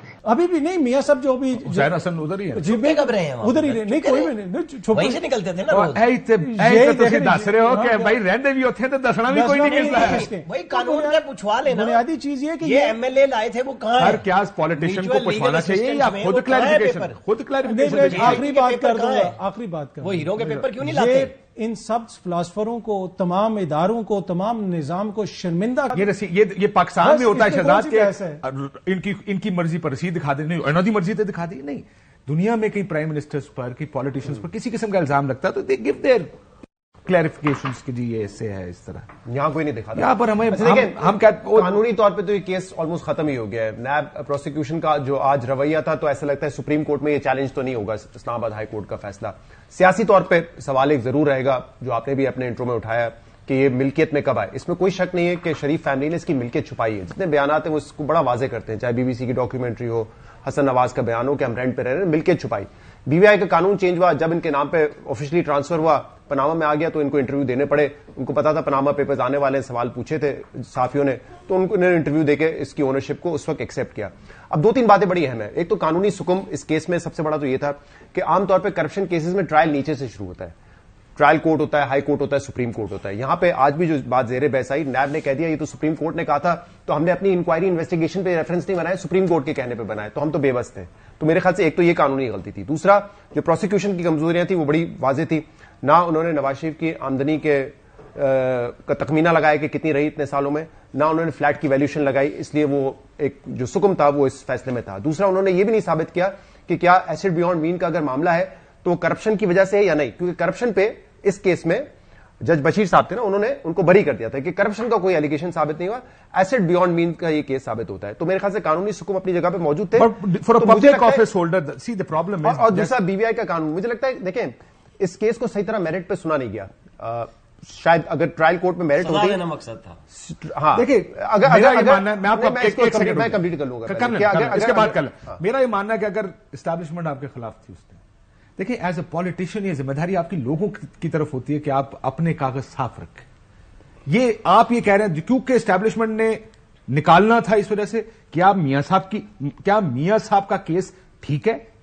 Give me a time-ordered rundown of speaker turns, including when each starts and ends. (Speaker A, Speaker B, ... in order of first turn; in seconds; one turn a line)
Speaker A: 0.2-1.9
Speaker B: 1.6-2.6
Speaker A: 2.5-5.2
Speaker C: 2.6-4.3
Speaker C: 4.9-6.0
Speaker B: 5.7-10.2
Speaker A: 6.3-8.2
Speaker A: 9.3-13.0
Speaker C: 9.6-12.0
Speaker C: 12.6-17.2
Speaker B: 14.0-18.4
Speaker A: 17.6-26.1
Speaker C: 17.8-19.4
Speaker C: 20.0-21.3
Speaker B: 25.9-36.3
Speaker A: 27.0-28.4
Speaker B: 37.0-39.1
Speaker D: 39.3-80.5
Speaker B: 40.0-41.7
Speaker D: 81.2-111.9
Speaker D: 112.4-121.2
Speaker B: 120.0-122.9
Speaker D: 122.4-129.4
Speaker C: 129.0-130.0
Speaker D: 130.1-135.4
Speaker B: 130.7-138.0
Speaker B: 138.6-143.3
Speaker B: 144.1-151.6